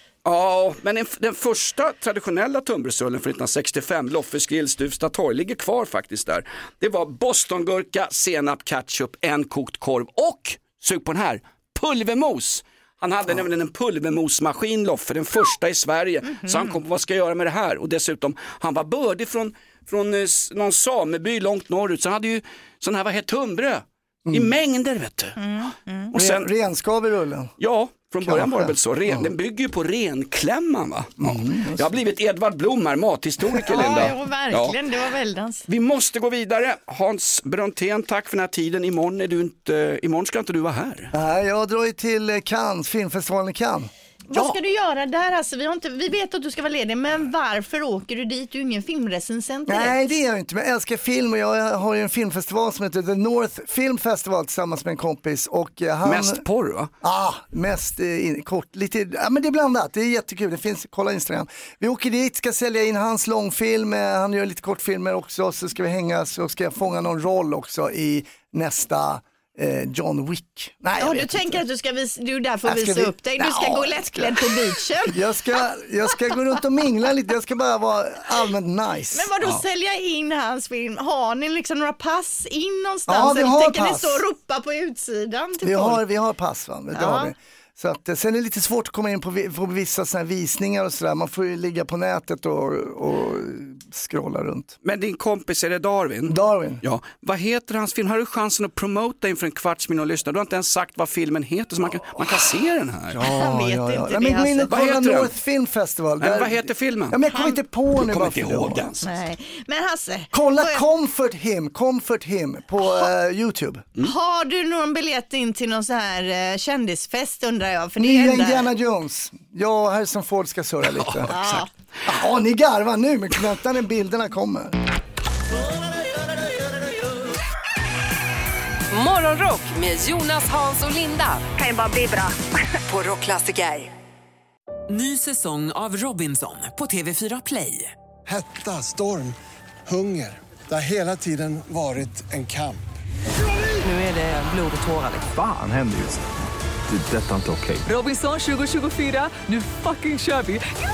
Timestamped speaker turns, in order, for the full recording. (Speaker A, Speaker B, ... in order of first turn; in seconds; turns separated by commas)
Speaker A: 0.2-25.4, Speaker B: 16.4-16.8, Speaker C: 24.3-24.5, Speaker B: 25.4-26.1, Speaker A: 26.1-26.5, Speaker C: 26.1-27.5, Speaker A: 27.6-34.8, Speaker C: 28.2-29.3, Speaker C: 31.2-32.0, Speaker B: 33.7-35.6, Speaker C: 33.8-34.1, Speaker A: 35.7-41.1, Speaker C: 41.1-44.5, Speaker B: 44.3-50.0, Speaker C: 49.7-56.4, Speaker A: 56.0-56.9, Speaker C: 57.0-71.6, Speaker B: 71.0-75.2, Speaker C: 72.7-79.3, Speaker B: 79.1-86.0, Speaker C: 83.1-84.2, Speaker C: 85.6-94.8, Speaker B: 86.9-87.3, Speaker A: 94.8-103.2, Speaker C: 96.3-96.8, Speaker C: 103.1-108.8, Speaker B: 103.2-104.7, Speaker A: 104.7-105.3, Speaker A: 106.2-107.2, Speaker A: 108.0-109.1, Speaker B: 109.0-110.8, Speaker C: 110.3-113.8, Speaker B: 114.0-118.7, Speaker C: 118.0-121.3, Speaker A: 121.0-121.7, Speaker B: 121.3-121.7, Speaker C: 122.1-124.8, Speaker D: 128.9-132.4, Speaker D: 132.9-133.9, Speaker E: 134.9-137.9, Speaker F: 138.3-139.4, Speaker F: 139.9-142.9, Speaker E: 143.9-145.3, Speaker G: 145.3-146.2, Speaker G: 146.9-147.9, Speaker E: 147.8-150.7